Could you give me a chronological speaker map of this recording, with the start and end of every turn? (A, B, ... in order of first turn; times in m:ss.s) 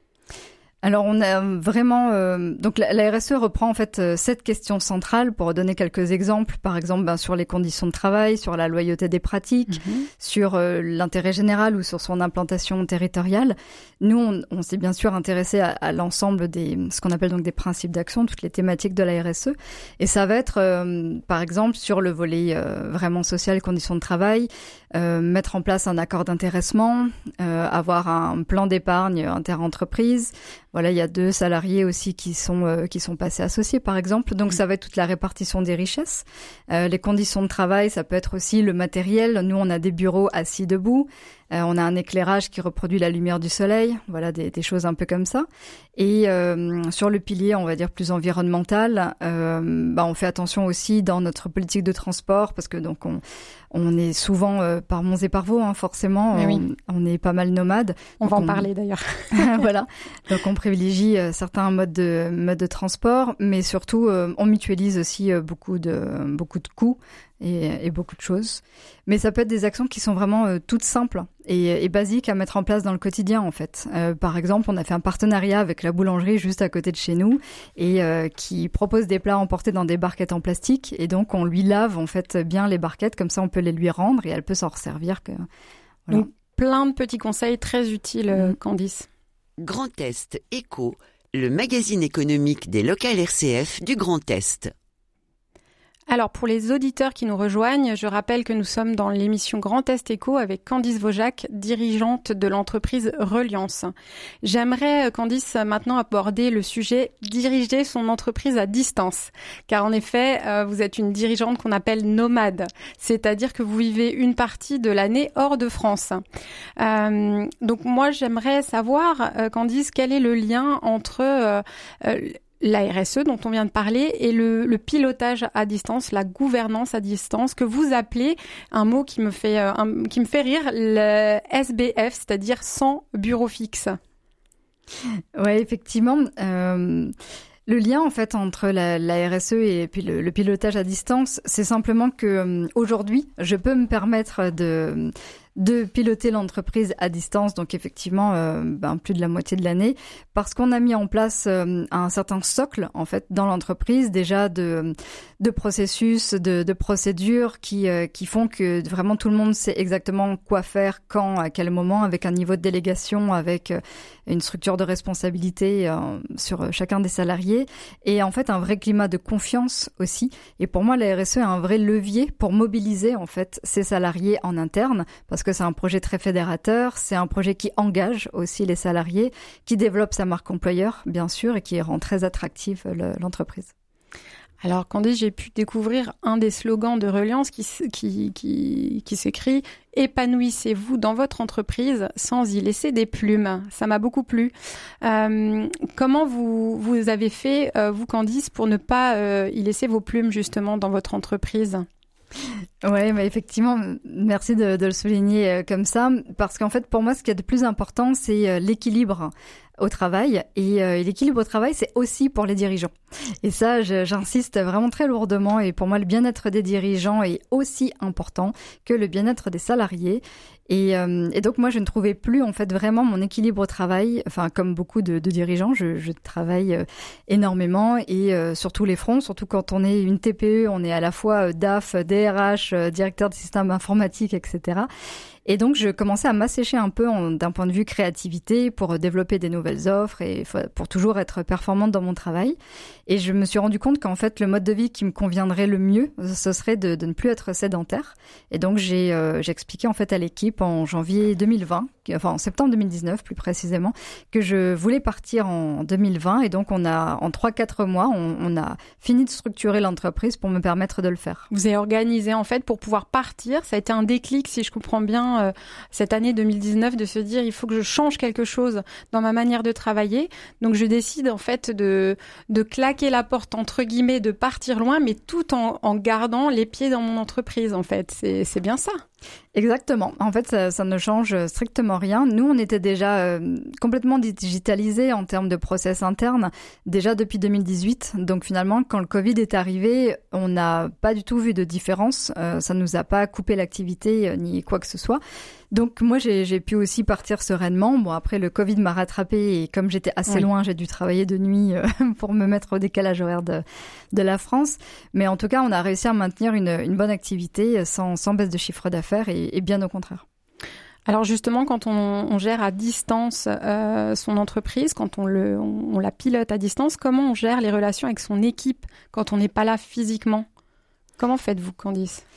0:00.8-0:45.5 A
0:09.8-0:10.1 B
0:46.0-0:53.2 A
0:53.7-0:58.7 A
0:56.4-0:56.6 B
0:58.2-0:59.6 B
0:59.3-1:25.4 A
1:26.1-1:29.1 B
1:29.6-1:34.7 C
1:36.1-1:43.9 B
1:44.4-1:56.2 B
1:56.8-2:14.0 B
2:15.4-2:17.1 A
2:17.7-3:03.7 A
3:04.6-3:14.5 B
3:15.0-3:21.8 B
3:22.8-3:32.9 A
3:33.4-3:54.9 A
3:55.5-4:02.6 A
4:03.1-4:21.5 A
4:21.5-4:39.0 B
4:39.6-4:55.2 A
4:55.7-5:10.2 A
5:11.1-5:20.4 B
5:21.2-5:22.2 B